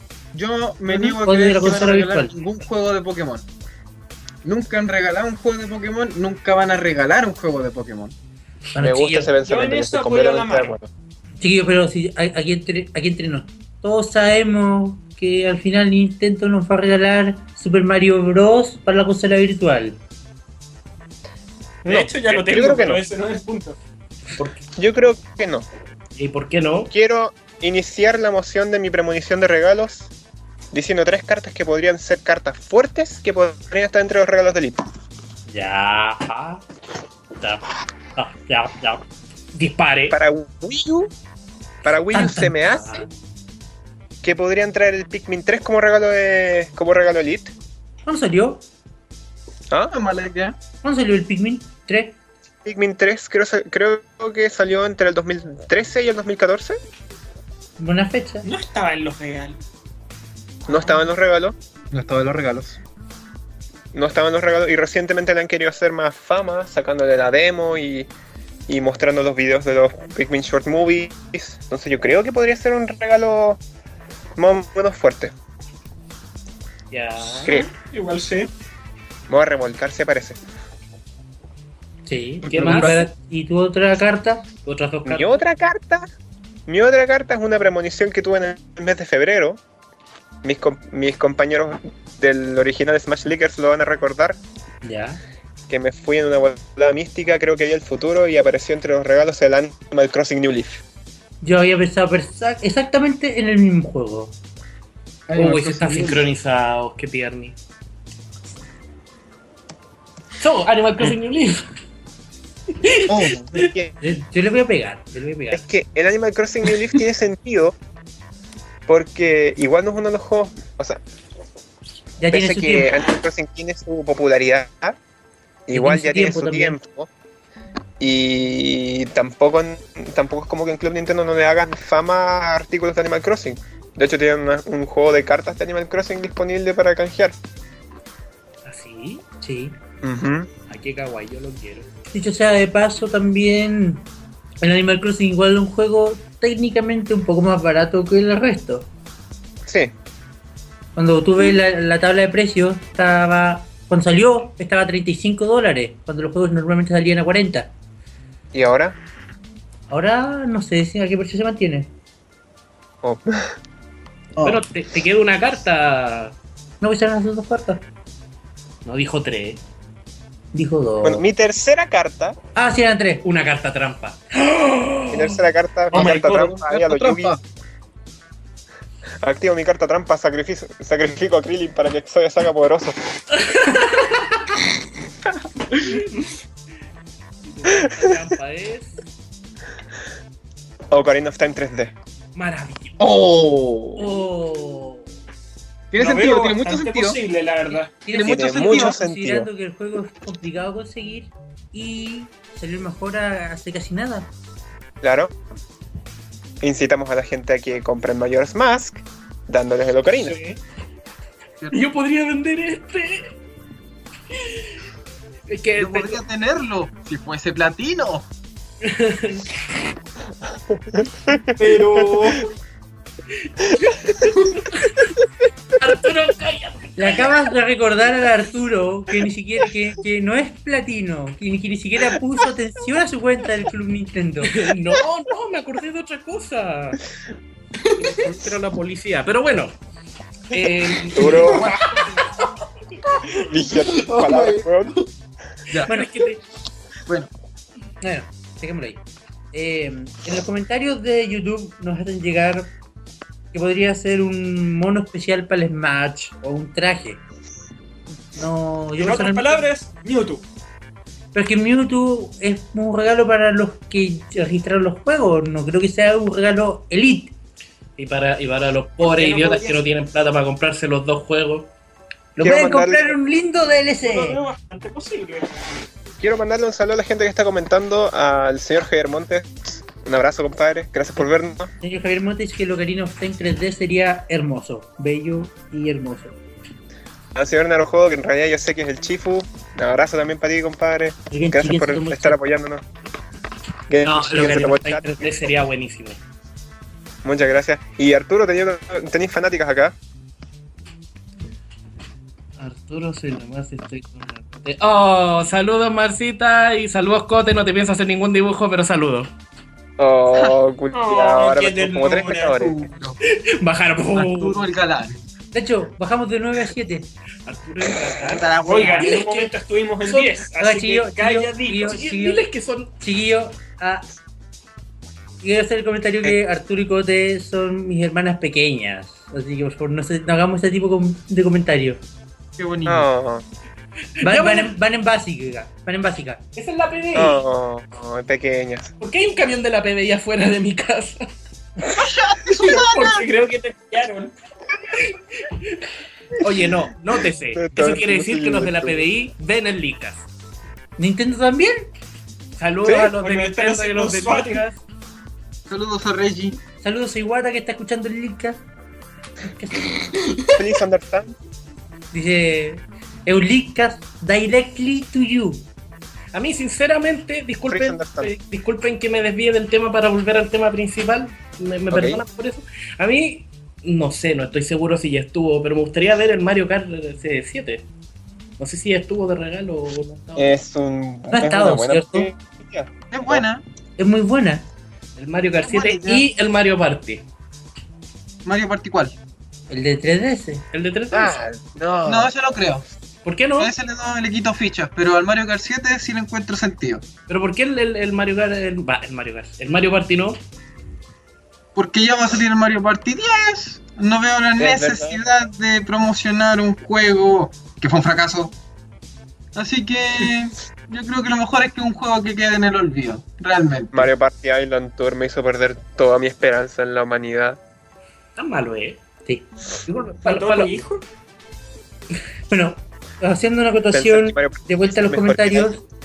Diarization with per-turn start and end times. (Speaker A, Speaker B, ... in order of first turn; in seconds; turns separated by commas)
Speaker A: 0.3-3.5, Speaker B: 0.9-2.3, Speaker A: 4.4-8.2, Speaker B: 8.8-9.3, Speaker C: 8.8-10.9, Speaker D: 9.4-10.7, Speaker B: 11.4-20.0, Speaker D: 21.8-23.8, Speaker C: 21.9-23.0, Speaker D: 24.3-24.6, Speaker C: 24.8-25.7, Speaker E: 26.2-26.9, Speaker C: 26.9-30.1, Speaker C: 30.7-34.9, Speaker E: 35.5-36.6, Speaker E: 38.2-40.2, Speaker C: 40.1-41.1, Speaker C: 41.8-43.1, Speaker B: 42.1-43.0, Speaker C: 44.2-47.5, Speaker B: 48.0-48.6, Speaker A: 49.9-50.6, Speaker B: 50.8-52.2, Speaker C: 52.6-56.8, Speaker B: 57.8-58.5, Speaker D: 58.4-59.6, Speaker C: 60.7-61.6, Speaker A: 61.9-62.8, Speaker C: 63.9-68.1, Speaker C: 68.7-73.6, Speaker C: 74.4-75.3, Speaker E: 76.9-77.5, Speaker D: 77.5-78.5, Speaker C: 79.3-80.4, Speaker B: 82.1-84.5, Speaker E: 82.5-83.1, Speaker A: 82.5-82.9, Speaker E: 84.6-85.4, Speaker C: 85.1-86.1, Speaker C: 86.7-89.6, Speaker C: 90.4-94.4, Speaker B: 94.8-95.2, Speaker C: 95.7-100.8, Speaker B: 101.4-104.3, Speaker A: 105.3-106.3, Speaker E: 105.3-107.6, Speaker E: 110.4-111.6, Speaker E: 112.8-113.7, Speaker A: 113.1-113.6, Speaker C: 113.5-113.9, Speaker B: 114.0-115.6, Speaker E: 115.3-115.6, Speaker C: 115.5-117.8, Speaker C: 118.9-121.0, Speaker B: 122.2-122.9, Speaker C: 122.3-125.0, Speaker C: 125.7-127.1, Speaker B: 125.7-126.8, Speaker C: 128.0-137.4, Speaker E: 138.7-139.2, Speaker B: 139.4-139.8, Speaker C: 140.0-140.5, Speaker E: 140.7-141.9, Speaker B: 142.1-144.1, Speaker B: 144.6-148.9, Speaker C: 149.7-149.9, Speaker B: 151.0-157.7, Speaker C: 158.5-159.0, Speaker B: 159.9-161.9, Speaker C: 163.0-163.6, Speaker E: 164.4-166.4, Speaker B: 166.8-167.8, Speaker E: 168.8-169.6, Speaker B: 170.5-171.2, Speaker C: 171.0-172.4, Speaker B: 172.6-173.2, Speaker E: 173.2-175.4, Speaker C: 175.1-177.4, Speaker A: 175.9-177.4, Speaker D: 176.0-176.3, Speaker C: 179.2-183.0, Speaker E: 183.3-184.3, Speaker E: 185.8-186.0, Speaker E: 187.4-189.0, Speaker C: 187.7-188.1, Speaker C: 190.9-191.9, Speaker E: 192.3-193.1, Speaker A: 193.0-194.0, Speaker B: 194.0-195.1, Speaker A: 195.9-197.2, Speaker D: 196.0-198.1, Speaker B: 198.0-204.3, Speaker A: 198.1-199.0, Speaker C: 198.2-199.5, Speaker C: 205.0-205.3, Speaker C: 206.6-210.4, Speaker D: 210.3-210.6, Speaker E: 211.7-213.3, Speaker E: 215.5-216.2, Speaker A: 215.8-218.3, Speaker E: 218.8-219.5, Speaker C: 220.9-221.6, Speaker D: 221.6-222.5, Speaker E: 223.5-225.1, Speaker E: 225.8-227.4, Speaker B: 227.0-234.7, Speaker E: 234.4-237.0, Speaker E: 238.0-239.8, Speaker E: 240.5-241.8, Speaker C: 241.2-241.8, Speaker C: 243.3-245.0, Speaker E: 245.8-246.4, Speaker B: 248.0-249.0, Speaker B: 249.5-252.7, Speaker B: 253.5-257.2, Speaker B: 258.2-259.7, Speaker D: 259.0-260.4, Speaker B: 261.3-267.3, Speaker E: 268.0-271.7, Speaker D: 269.0-269.7, Speaker B: 272.4-274.4, Speaker C: 272.4-273.2, Speaker D: 274.0-275.5, Speaker C: 276.2-281.7, Speaker B: 281.8-286.4, Speaker C: 287.4-292.8, Speaker B: 291.3-292.4, Speaker C: 293.9-295.5, Speaker E: 294.0-296.2, Speaker B: 294.1-294.7, Speaker C: 297.2-300.0, Speaker E: 302.6-309.3, Speaker C: 310.0-312.8, Speaker D: 310.9-312.6, Speaker A: 312.2-313.2, Speaker E: 313.3-314.6, Speaker A: 314.1-315.2, Speaker B: 315.5-317.1, Speaker E: 317.5-320.5, Speaker A: 318.2-319.2, Speaker D: 318.6-322.0, Speaker B: 320.6-322.5, Speaker E: 321.8-322.9, Speaker B: 323.0-324.1, Speaker B: 325.4-332.0, Speaker A: 332.6-333.1, Speaker C: 332.9-333.4, Speaker E: 334.2-334.7, Speaker B: 334.2-336.4, Speaker E: 336.6-337.4, Speaker C: 337.1-338.9, Speaker E: 339.0-341.2, Speaker A: 342.0-343.3, Speaker D: 342.6-344.3, Speaker E: 345.0-345.6, Speaker E: 346.4-350.3, Speaker C: 347.5-349.1, Speaker B: 351.0-351.9, Speaker E: 352.6-354.8, Speaker C: 352.9-353.1, Speaker D: 353.2-354.6, Speaker A: 355.7-356.6, Speaker B: 356.8-358.6, Speaker B: 359.4-360.0, Speaker C: 360.5-361.4, Speaker B: 362.1-365.7, Speaker E: 366.3-377.9, Speaker C: 367.7-368.3, Speaker C: 371.9-372.2, Speaker E: 378.6-380.6, Speaker C: 380.4-383.5, Speaker B: 381.3-382.3, Speaker A: 383.1-383.6, Speaker B: 384.0-384.7, Speaker E: 385.2-387.3, Speaker A: 385.6-386.2, Speaker A: 388.4-389.2, Speaker B: 389.7-390.6, Speaker E: 390.7-391.4, Speaker C: 391.1-392.3, Speaker A: 392.1-392.9, Speaker E: 393.2-393.7, Speaker A: 393.6-397.0, Speaker E: 397.3-400.4, Speaker A: 401.8-408.5, Speaker C: 404.6-405.2, Speaker A: 409.6-414.1, Speaker C: 413.9-417.6, Speaker E: 418.4-419.0, Speaker E: 419.9-420.8, Speaker D: 420.2-421.0, Speaker B: 422.5-425.8, Speaker C: 423.9-425.7